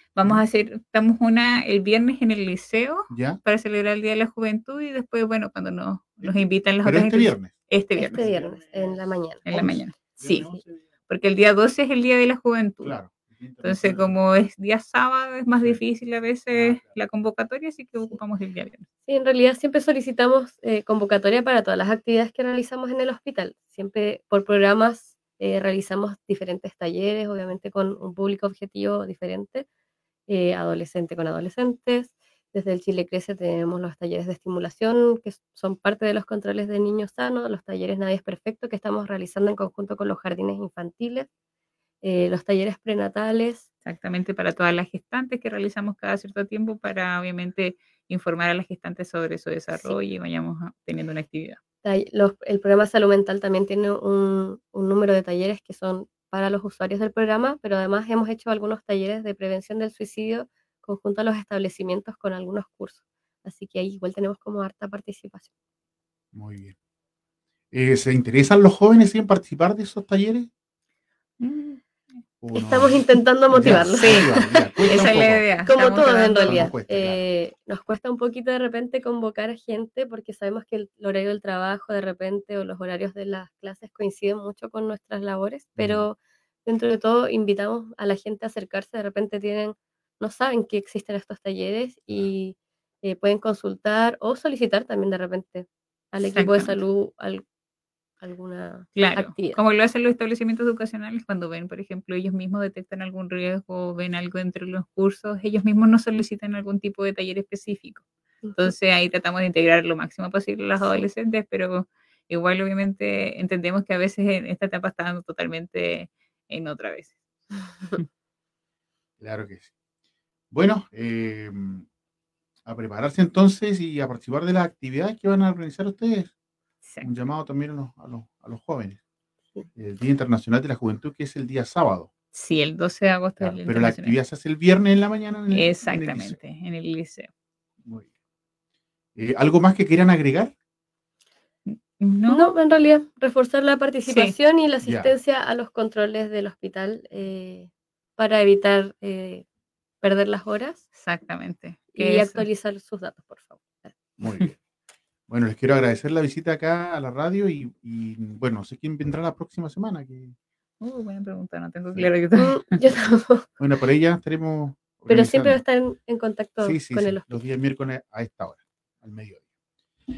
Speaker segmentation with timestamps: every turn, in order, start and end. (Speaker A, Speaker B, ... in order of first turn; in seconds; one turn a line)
Speaker A: 0.1-8.2
Speaker B: 3.1-3.4
Speaker B: 6.2-7.5
Speaker C: 8.0-9.8
Speaker B: 8.2-9.0
Speaker A: 9.4-10.5
Speaker B: 10.2-10.8
Speaker A: 11.1-13.0
Speaker B: 12.8-14.2
Speaker A: 13.6-18.8
Speaker B: 16.5-16.9
Speaker C: 19.1-29.6
Speaker C: 30.3-41.3
Speaker C: 42.0-43.7
Speaker A: 43.9-51.6
Speaker C: 49.7-50.0
Speaker C: 51.8-65.5
Speaker B: 66.3-66.7
Speaker B: 67.7-70.5
Speaker A: 71.4-71.8
Speaker B: 72.4-77.2
Speaker C: 72.5-97.4
Speaker A: 73.6-74.3
Speaker A: 74.9-76.7
Speaker B: 85.8-86.0
Speaker A: 96.2-96.8
Speaker C: 98.2-99.6
Speaker A: 99.0-117.2
Speaker C: 108.4-108.7
Speaker B: 119.2-119.7
Speaker B: 120.5-121.8
Speaker B: 122.7-126.3
Speaker B: 127.0-129.0
Speaker B: 129.7-132.1
Speaker A: 132.3-134.2
Speaker B: 133.4-136.4
Speaker A: 135.5-137.3
Speaker B: 137.8-138.1
Speaker B: 139.2-140.5
Speaker A: 141.7-142.5
Speaker C: 142.3-149.4
Speaker A: 144.1-144.3
Speaker B: 144.8-145.1
Speaker C: 150.0-150.8
Speaker A: 150.9-152.5
Speaker C: 151.9-154.0
Speaker B: 154.2-154.6
Speaker B: 155.3-160.3
Speaker A: 160.8-162.8
Speaker C: 162.4-163.5
Speaker B: 163.6-165.6
Speaker C: 165.1-167.4
Speaker B: 166.6-169.4